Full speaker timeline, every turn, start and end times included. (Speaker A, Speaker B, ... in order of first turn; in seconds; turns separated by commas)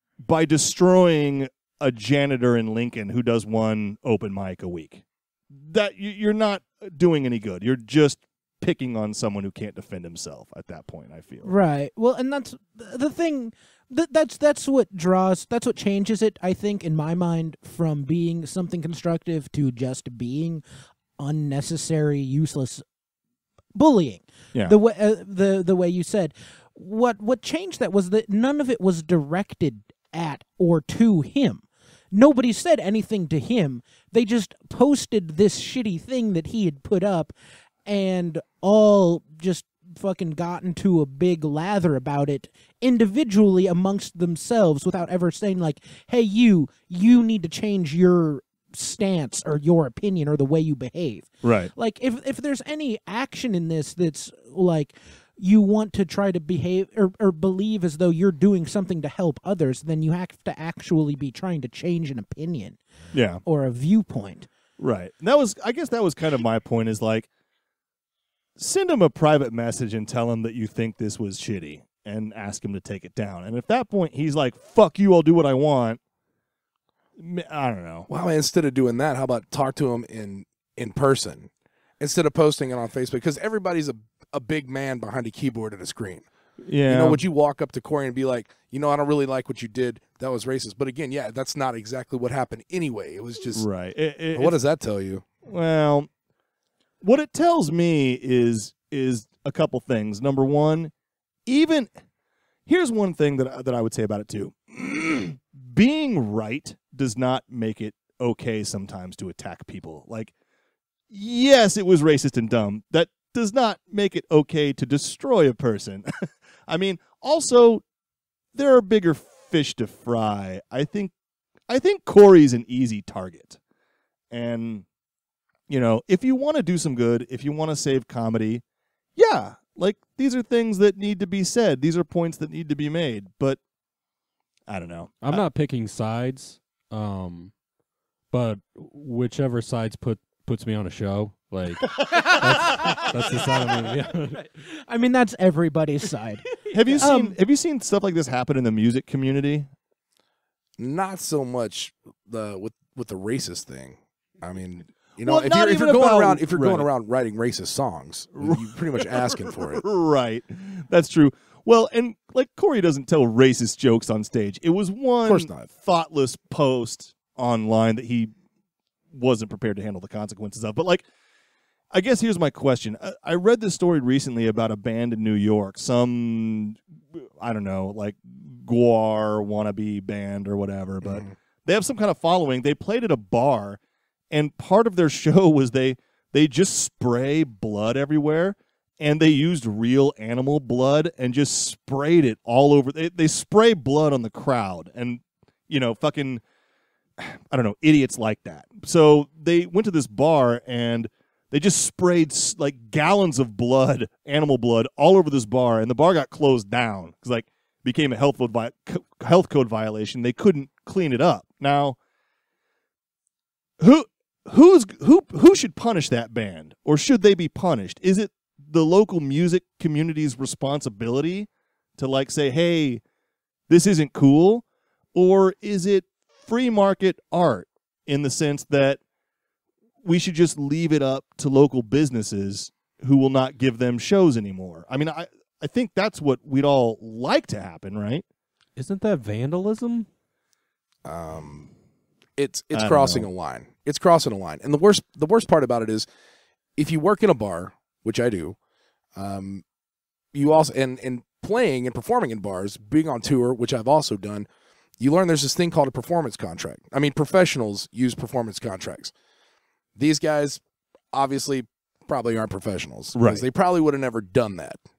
Speaker A: 0.2-11.5, Speaker B: 11.4-20.6, Speaker B: 21.2-22.8, Speaker B: 23.8-37.3, Speaker B: 37.9-62.8, Speaker A: 51.4-51.7, Speaker A: 63.1-63.4, Speaker B: 63.5-64.5, Speaker A: 64.8-67.3, Speaker A: 68.6-76.0, Speaker A: 77.2-78.1, Speaker C: 78.1-86.3, Speaker A: 86.6-87.2, Speaker C: 86.9-93.7, Speaker A: 93.5-94.6, Speaker C: 94.3-95.3, Speaker A: 95.4-96.1, Speaker A: 97.0-100.9, Speaker A: 101.5-101.9, Speaker A: 102.7-110.3, Speaker A: 111.1-117.8, Speaker A: 118.5-121.1, Speaker A: 121.7-123.6, Speaker A: 124.3-124.8, Speaker A: 125.7-128.6, Speaker A: 129.2-133.6, Speaker A: 134.7-135.4, Speaker D: 135.2-137.5, Speaker D: 138.3-144.4, Speaker B: 144.8-146.4, Speaker A: 146.7-149.7, Speaker B: 147.0-147.4, Speaker C: 150.8-159.8, Speaker A: 155.2-156.9, Speaker A: 158.4-168.3, Speaker C: 165.2-165.7, Speaker A: 169.1-171.1, Speaker A: 171.9-183.8, Speaker C: 181.0-181.3, Speaker A: 184.3-196.4, Speaker A: 197.2-212.0, Speaker A: 213.8-223.0, Speaker A: 223.7-229.0, Speaker A: 230.0-238.2, Speaker D: 238.8-240.1, Speaker C: 241.1-241.7, Speaker C: 242.4-246.1, Speaker A: 242.7-243.3, Speaker C: 246.8-248.6, Speaker C: 249.2-249.6, Speaker C: 250.3-254.5, Speaker C: 255.0-259.1, Speaker C: 260.0-264.8, Speaker A: 263.1-263.5